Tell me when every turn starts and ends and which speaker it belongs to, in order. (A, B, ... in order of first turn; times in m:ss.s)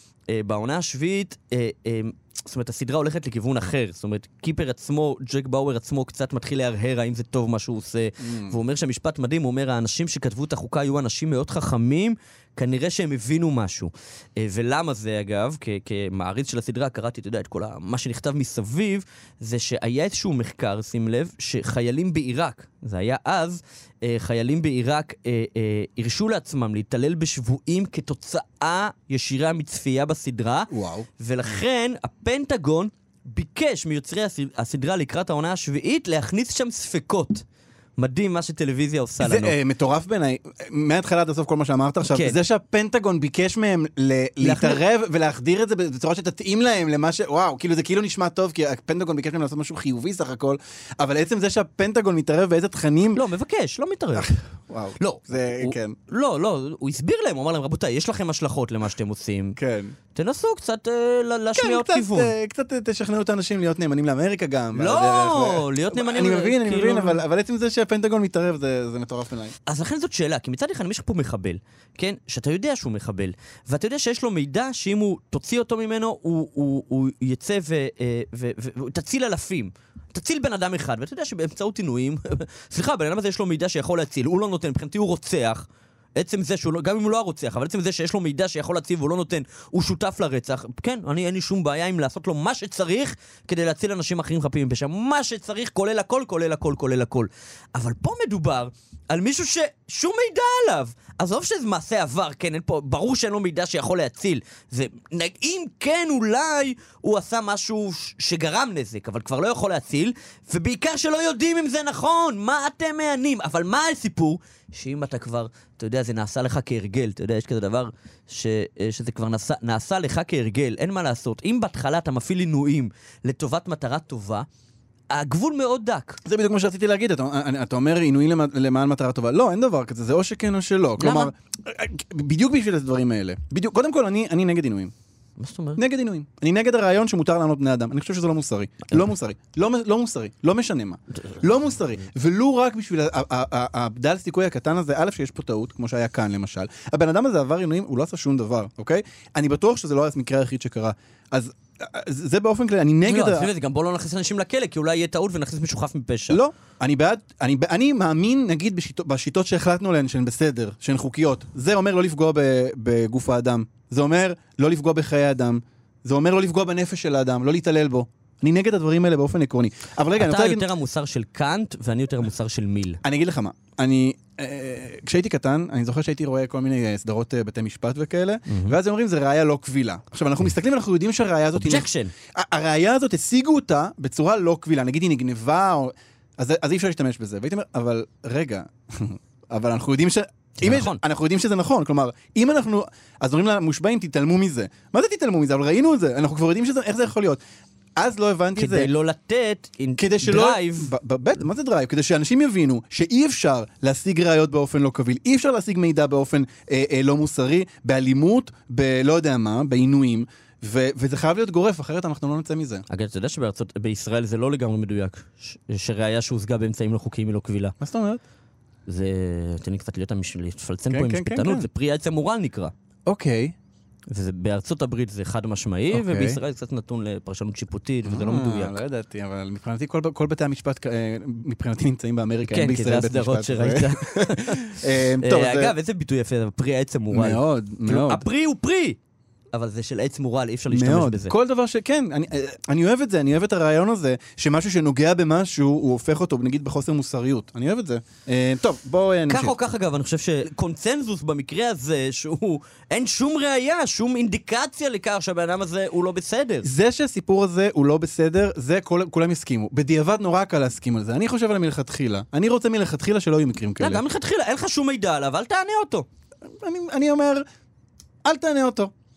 0:00.3-0:30.7 A
0:08.2-0:08.6 B
0:30.7-0:31.1 B
0:31.2-0:37.4 A
0:38.0-0:39.6 A
0:39.2-0:53.2 B
0:42.1-0:42.4 A
0:44.4-0:44.8 A
0:53.1-0:54.3 A
0:54.2-0:56.0 B
0:55.0-0:59.6 A
0:59.6-1:00.0 B
1:00.1-1:02.3 A
1:01.5-1:09.5 B
1:04.8-1:07.2 A
1:09.7-2:04.4 A
2:05.1-2:06.2 A
2:06.2-2:14.9 B
2:11.0-2:11.3 A
2:15.4-2:15.8 A
2:15.8-2:33.5 B
2:33.0-2:36.4 A
2:36.3-2:50.6 B
2:50.2-2:53.0 A
2:53.0-3:17.4 B
2:58.5-2:58.8 A
3:01.5-3:02.1 A
3:10.6-3:11.0 A
3:18.0-3:18.9 B
3:18.6-3:20.9 A
3:20.0-3:32.8 B
3:32.9-3:37.7 A
3:37.8-3:38.2 B
3:38.9-3:42.7 A
3:40.9-3:41.7 B
3:43.0-3:43.5 B
3:44.1-3:48.8 A
3:45.9-3:46.4 B
3:48.0-3:55.7 B
3:52.5-3:59.0 A
3:57.1-3:58.2 B
3:59.5-4:01.3 A
4:00.7-4:09.6 B
4:09.3-4:16.7 A
4:16.6-4:24.0 B
4:23.8-4:26.0 A
4:26.5-4:27.4 B
4:28.2-4:28.9 B